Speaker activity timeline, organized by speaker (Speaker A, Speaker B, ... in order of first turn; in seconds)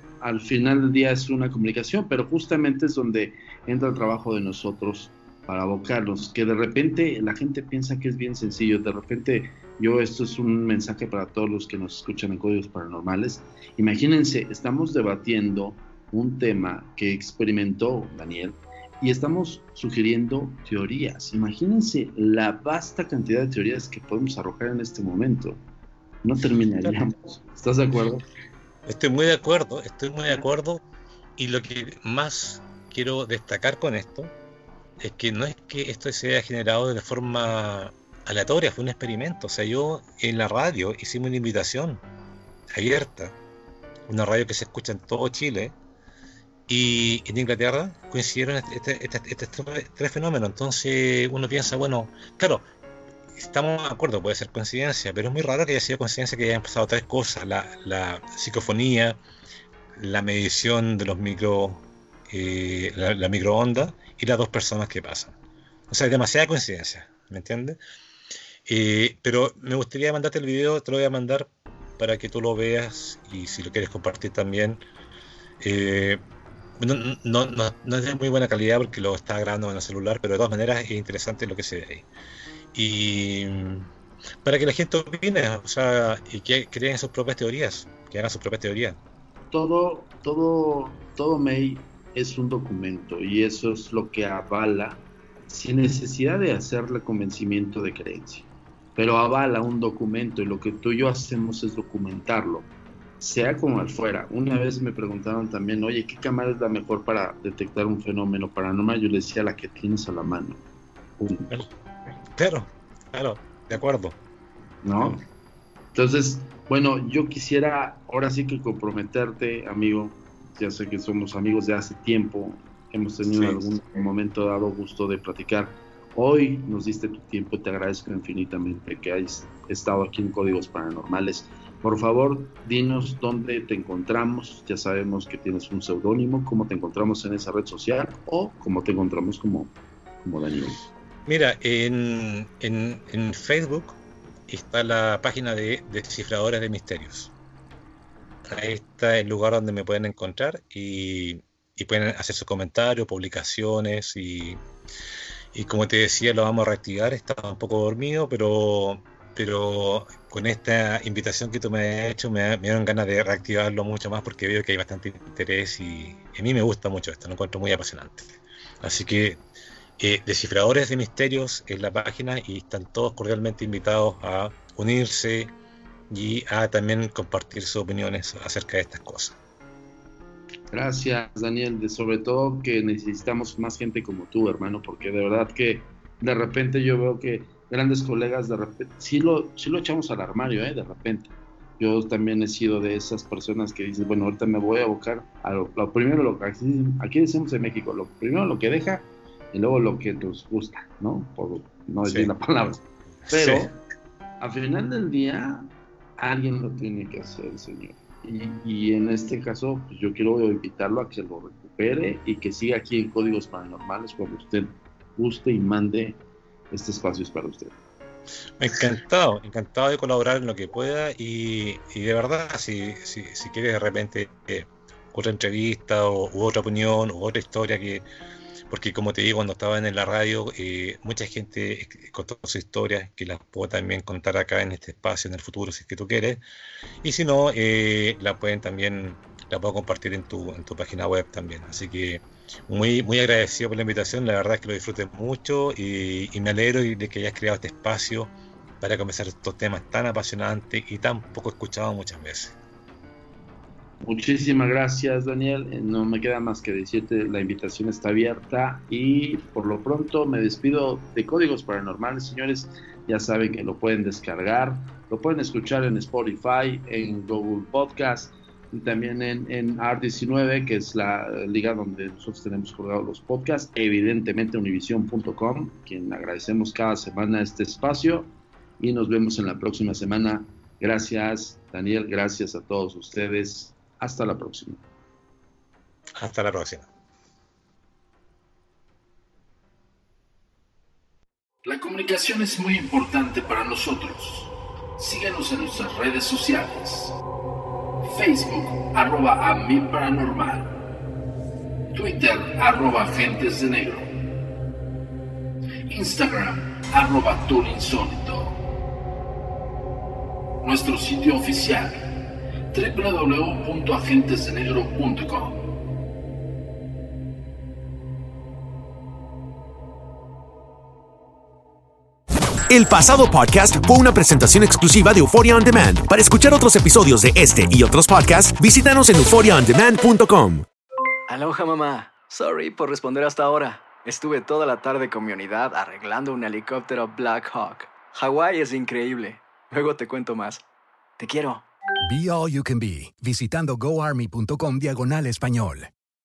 Speaker A: 0.2-25.6, 26.2-28.2, 89.5-102.7, 103.2-110.6, 111.2-111.5, 114.8-115.2, 115.9-140.8, 180.7-203.7, 204.4-216.2, 216.7-217.8, 254.0-284.8
Speaker B: 28.9-30.8, 31.4-34.3, 35.0-42.0, 42.7-43.4, 44.1-45.8, 46.7-52.6, 53.4-59.2, 60.0-65.3, 65.9-67.8, 68.7-74.8, 75.6-76.2, 76.8-82.1, 82.7-83.9, 84.4-89.0, 112.4-114.2, 115.0-115.2, 123.2-123.6, 141.3-147.3, 148.5-154.6, 155.5-169.4, 170.0-175.5, 176.1-179.4, 202.1-202.3, 203.2-203.7, 218.6-228.1, 228.7-236.4, 237.0-252.6, 286.2-286.9
Speaker C: 291.6-297.2, 298.0-300.8, 301.9-304.1, 305.9-308.6, 310.6-315.7
Speaker D: 322.7-330.7
Speaker E: 331.3-340.6, 341.2-341.6
Speaker F: 342.0-345.9